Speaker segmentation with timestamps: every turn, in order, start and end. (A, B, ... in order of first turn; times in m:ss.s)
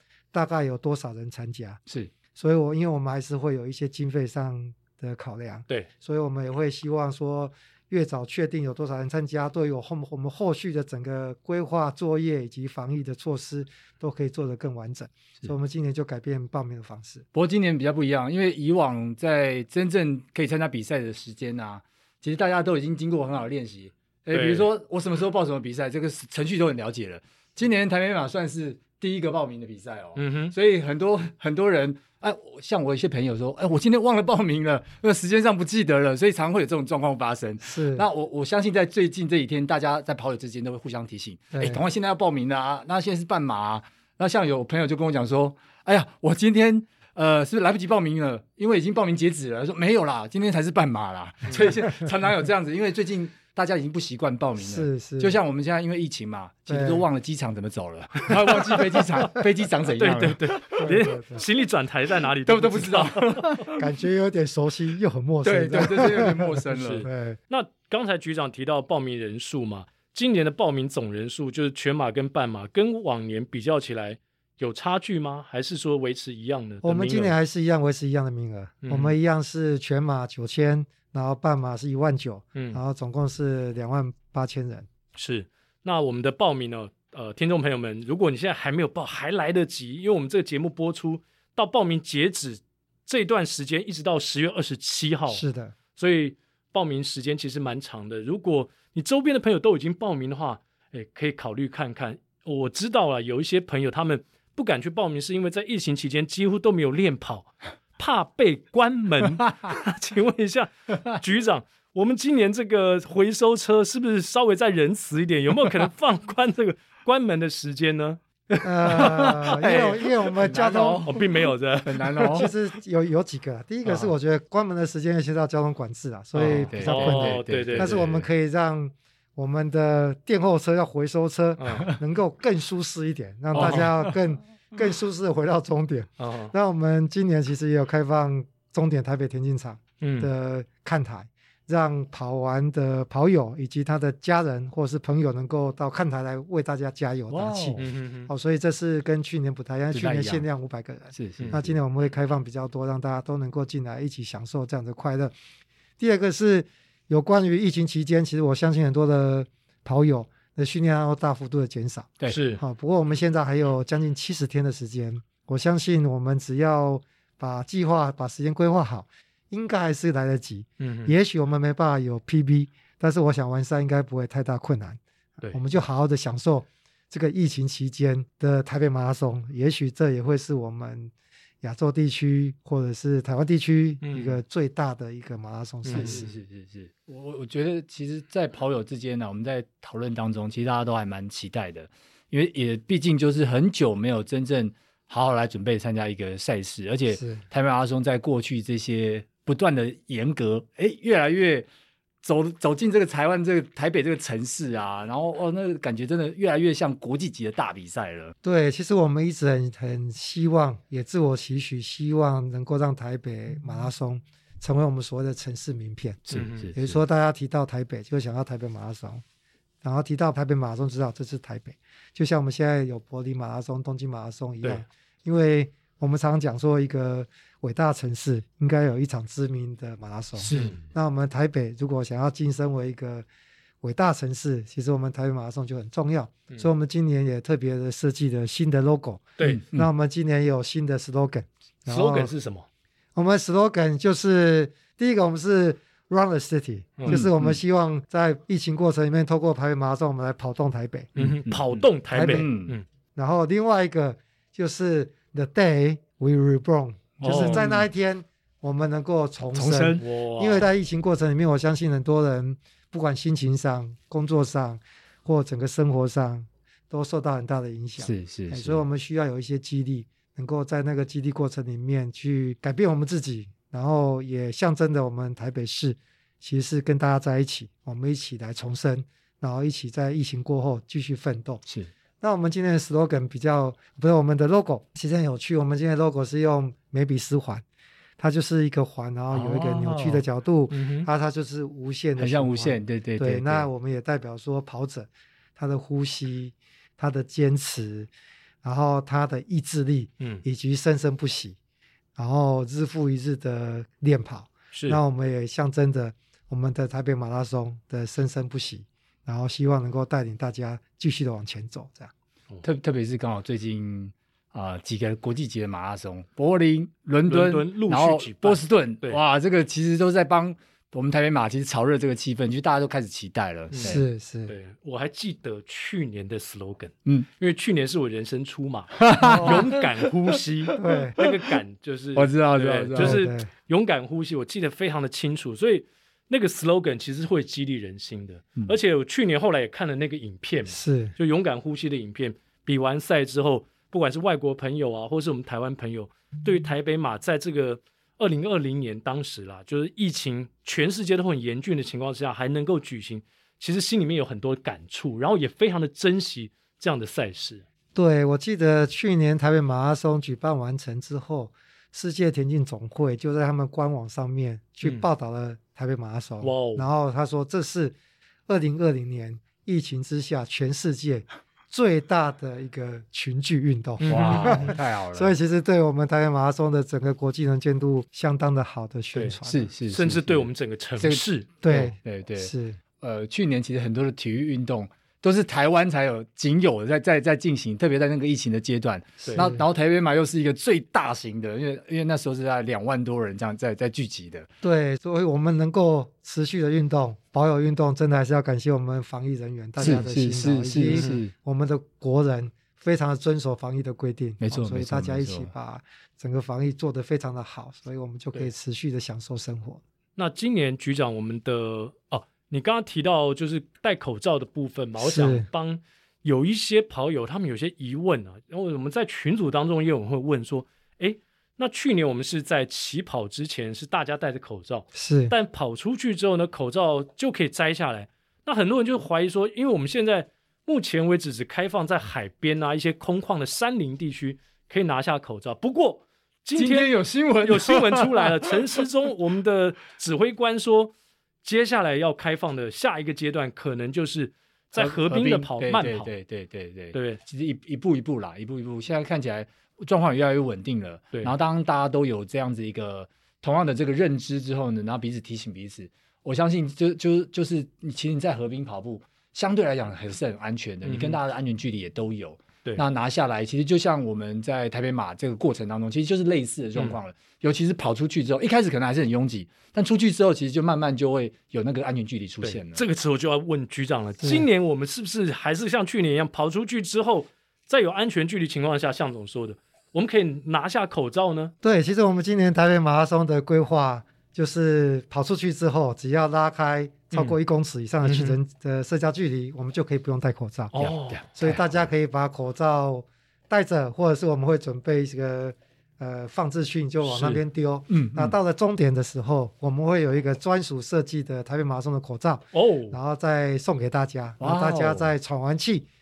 0:00.3-0:01.8 A
0:02.4-0:17.2 A
0:17.3-1:00.8 B
0:24.3-0:24.7 C
0:30.2-0:30.5 C
0:37.6-0:38.1 A
0:41.5-0:41.8 A
0:54.6-0:55.4 A
0:56.7-0:57.0 A
1:00.0-1:03.6 C
1:00.8-1:01.4 A
1:02.4-1:03.8 B
1:03.7-1:07.4 A
1:05.4-1:07.0 B
1:06.7-1:17.3 C
1:16.8-1:24.9 A
1:18.8-1:19.1 C
1:25.2-1:35.4 C
1:35.3-1:35.7 A
1:35.9-1:59.6 C
1:58.6-2:01.1 A
1:58.9-2:02.5 B
2:01.0-2:02.5 C
2:02.3-2:35.3 A
2:03.8-2:04.1 C
2:06.3-2:08.2 C
2:06.4-2:08.1 B
2:11.6-2:11.9 C
2:13.5-2:13.9 C
2:13.5-2:14.1 B
2:16.2-2:16.5 C
2:20.0-2:20.3 C
2:27.3-2:27.8 B
2:27.8-2:28.3 C
2:29.9-2:30.4 B
2:31.1-2:31.7 B
2:36.0-2:55.0 A
2:42.3-2:42.6 C
2:50.8-2:51.1 C
2:55.5-3:06.2 A
3:04.0-3:04.4 C
3:05.8-3:06.2 C
3:05.9-3:21.7 B
3:17.2-3:17.4 A
3:22.2-3:28.3 B
3:28.4-3:39.2 A
3:36.3-3:37.0 B
3:36.3-3:36.7 C
3:39.8-3:53.2 A
3:50.4-3:50.7 B
3:50.5-3:50.8 C
3:53.8-4:02.3 A
3:59.4-3:59.9 B
4:01.9-4:02.6 C
4:03.1-4:11.1 A
4:07.0-4:07.2 C
4:07.1-4:07.6 B
4:11.2-4:12.8 C
4:11.2-4:12.7 B
4:12.1-4:12.5 A
4:13.1-4:41.6 A
4:17.2-4:17.7 C
4:17.3-4:17.8 B
4:19.5-4:20.0 B
4:20.0-4:20.7 C
4:28.0-4:28.8 B
4:42.2-4:47.6 A
4:48.2-4:58.1 A
4:49.3-4:50.2 B
4:50.7-4:51.1 C
4:52.2-4:53.7 B
4:58.6-5:01.6 A
5:02.2-5:12.1 A
5:04.7-5:05.0 C
5:12.6-5:24.0 B
5:17.3-5:19.2 C
5:23.7-5:57.6 C
5:23.8-5:24.5 A
5:29.0-5:31.3 B
5:29.2-5:29.6 A
5:30.8-5:31.2 A
5:32.1-5:33.2 B
5:33.0-5:33.5 A
5:40.7-5:41.1 A
5:57.9-6:07.9 A
6:06.4-6:06.9 C
6:08.5-6:19.7 A
6:14.0-6:14.7 C
6:14.1-6:15.3 B
6:19.4-6:20.5 B
6:19.9-6:21.5 C
6:21.0-6:34.5 B
6:21.6-6:22.8 A
6:29.2-6:29.5 C
6:29.3-6:29.6 A
6:34.6-6:49.8 A
6:39.8-6:41.3 B
6:40.9-6:41.2 C
6:44.4-6:45.5 B
6:50.2-7:20.9 C
6:55.0-6:55.5 A
7:04.9-7:05.3 A
7:16.5-7:18.8 B
7:21.4-7:26.1 C
7:24.7-7:52.8 B
7:26.9-7:27.2 C
7:40.8-7:41.2 C
7:52.4-8:01.5 C
7:54.2-7:54.5 A
8:01.6-8:25.8 A
8:08.0-8:08.4 C
8:10.7-8:11.2 C
8:10.8-8:11.8 B
8:17.0-8:17.4 C
8:17.9-8:18.4 B
8:22.5-8:23.0 C
8:24.4-8:25.1 B